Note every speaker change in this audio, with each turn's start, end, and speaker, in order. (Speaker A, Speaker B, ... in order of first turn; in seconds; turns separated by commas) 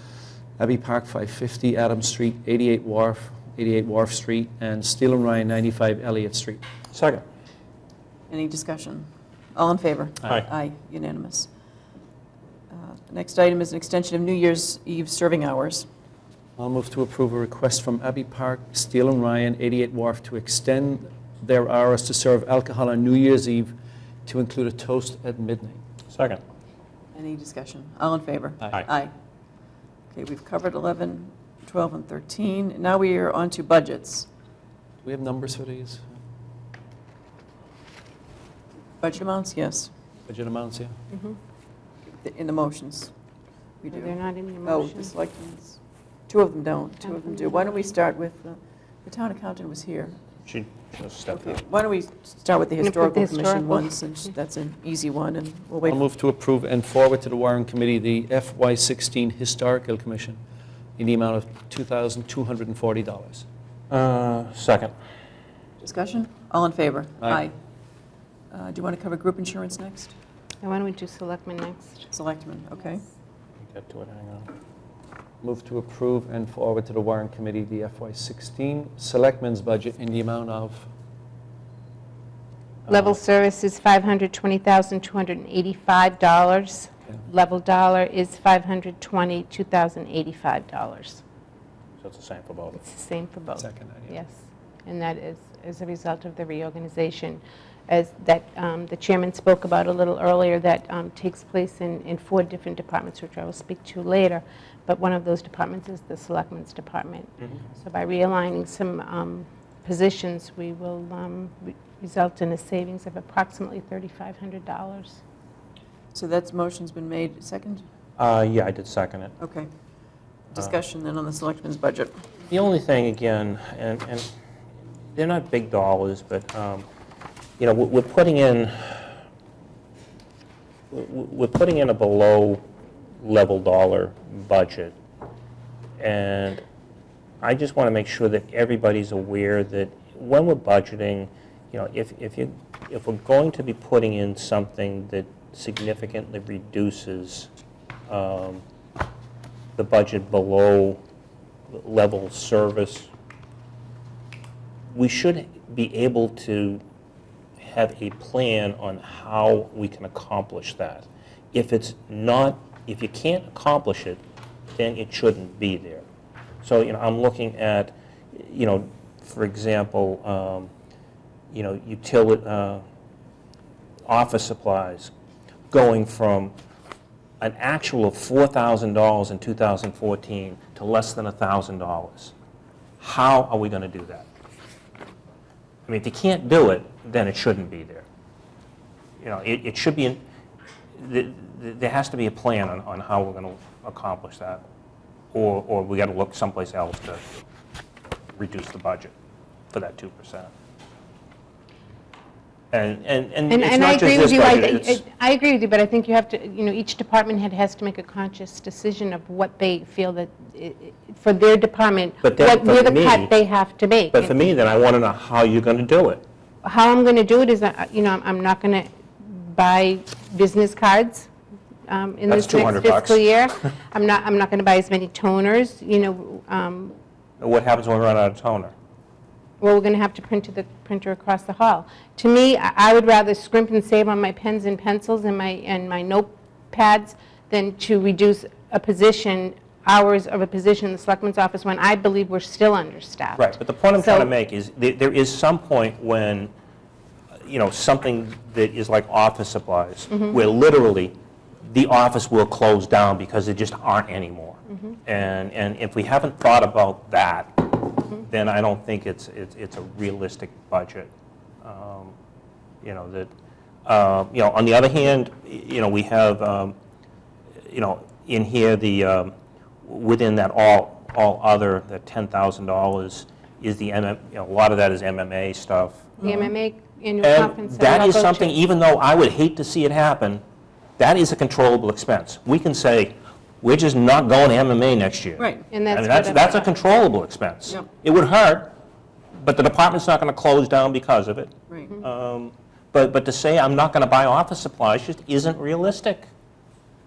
Speaker A: 0.6-6.6, Speaker B: 6.9-7.2, Speaker C: 8.3-11.5, Speaker C: 12.7-15.8, Speaker A: 16.6-23.7, Speaker A: 24.2-25.8, Speaker B: 26.1-26.4, Speaker C: 27.1-29.1, Speaker C: 30.1-34.3, Speaker A: 35.0-36.1, Speaker C: 39.0-39.9, Speaker A: 40.3-41.0, Speaker C: 42.2-43.1, Speaker C: 43.8-44.1, Speaker D: 43.9-45.1, Speaker C: 44.6-50.2, Speaker B: 50.5-51.6, Speaker C: 51.3-56.0, Speaker D: 52.8-53.9, Speaker A: 55.9-60.4, Speaker A: 61.0-63.4, Speaker B: 63.9-64.9, Speaker C: 65.8-67.5, Speaker C: 68.5-70.1, Speaker D: 70.6-72.1, Speaker C: 72.1-73.0, Speaker B: 73.7-74.5, Speaker A: 75.4-80.9, Speaker D: 82.9-91.2, Speaker B: 92.0-92.8, Speaker D: 92.8-115.2, Speaker A: 93.6-94.2, Speaker C: 116.1-117.8, Speaker B: 118.2-119.3, Speaker C: 119.4-119.7, Speaker C: 120.5-122.2, Speaker B: 122.5-124.3, Speaker B: 125.1-126.8, Speaker B: 127.6-129.1, Speaker B: 130.9-132.6, Speaker B: 133.2-134.9, Speaker B: 136.0-136.6, Speaker B: 137.4-147.5, Speaker B: 148.1-148.6, Speaker B: 149.8-151.0, Speaker B: 151.7-153.1, Speaker B: 154.9-156.8, Speaker B: 157.6-164.2, Speaker B: 164.8-166.0, Speaker B: 166.6-170.7, Speaker B: 171.5-172.8, Speaker B: 174.1-175.1, Speaker B: 175.7-176.5, Speaker B: 177.4-182.3, Speaker B: 183.0-184.2, Speaker B: 185.9-188.1, Speaker B: 189.2-190.2, Speaker B: 191.0-194.6, Speaker B: 195.3-197.2, Speaker B: 198.3-199.1, Speaker B: 199.7-200.5, Speaker B: 202.7-205.0, Speaker D: 203.5-214.3, Speaker B: 212.2-213.3, Speaker B: 214.1-216.2, Speaker D: 216.6-221.3, Speaker D: 221.9-226.9, Speaker B: 222.3-223.2, Speaker B: 227.4-228.7, Speaker D: 229.6-244.3, Speaker B: 243.3-246.5, Speaker B: 247.4-251.2, Speaker B: 251.7-261.1, Speaker B: 261.6-262.1, Speaker B: 262.8-263.3, Speaker B: 263.9-266.7, Speaker B: 267.7-276.5, Speaker C: 276.2-276.5, Speaker D: 276.2-278.6, Speaker B: 277.2-280.4, Speaker B: 281.0-288.7, Speaker C: 285.4-285.6, Speaker D: 285.7-286.7, Speaker B: 289.4-296.3, Speaker C: 291.7-291.9